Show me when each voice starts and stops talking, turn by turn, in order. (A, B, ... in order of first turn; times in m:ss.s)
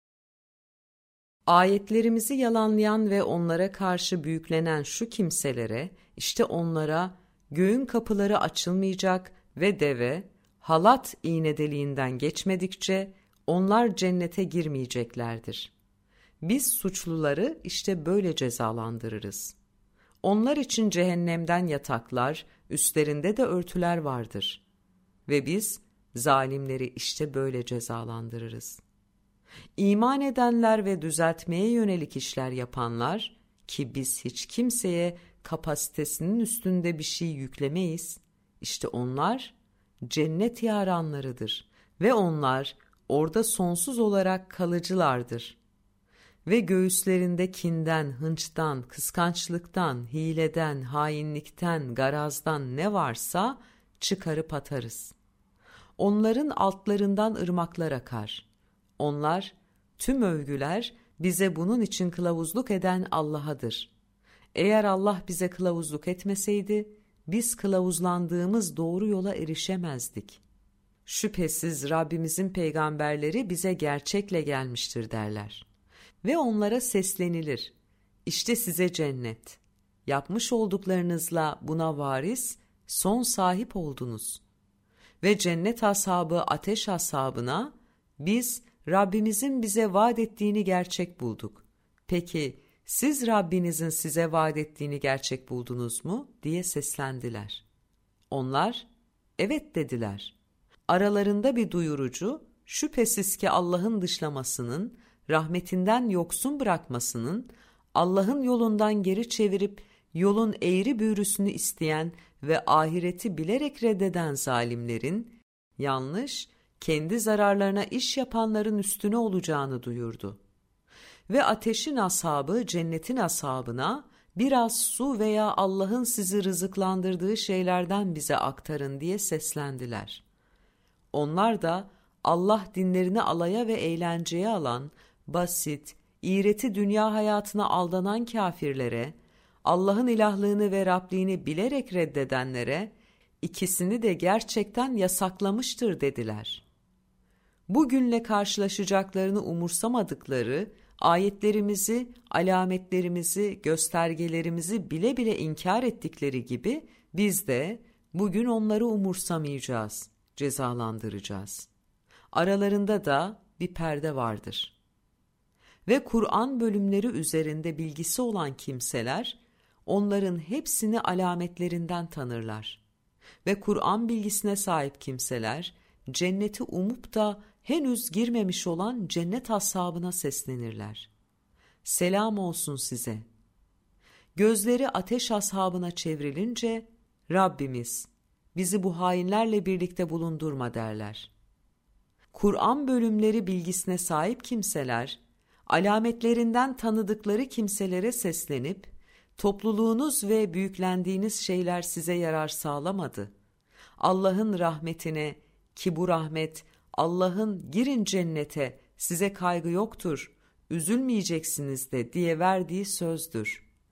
0:01.5-0:15.7 A
0:16.4-0:19.6 A
0:20.2-0:24.6 A
0:25.2-0:28.8 A
0:29.8-0:45.6 A
0:46.4-0:55.1 A
0:56.0-0:58.4 A
0:59.0-1:03.9 A
1:04.5-1:10.4 A
1:11.0-1:15.6 A
1:16.2-1:17.7 A
1:18.2-1:24.4 A
1:25.2-1:37.6 A
1:38.3-1:38.9 A
1:39.4-1:40.3 A
1:40.9-2:00.4 A
2:01.3-2:10.2 A
2:11.1-2:19.1 A
2:19.6-2:26.6 A
2:27.7-2:41.7 A
2:42.3-2:44.7 A
2:45.8-2:52.8 A
2:53.4-3:01.1 A
3:01.8-3:03.2 A
3:04.3-3:11.3 A
3:12.3-3:23.3 A
3:24.0-3:33.6 A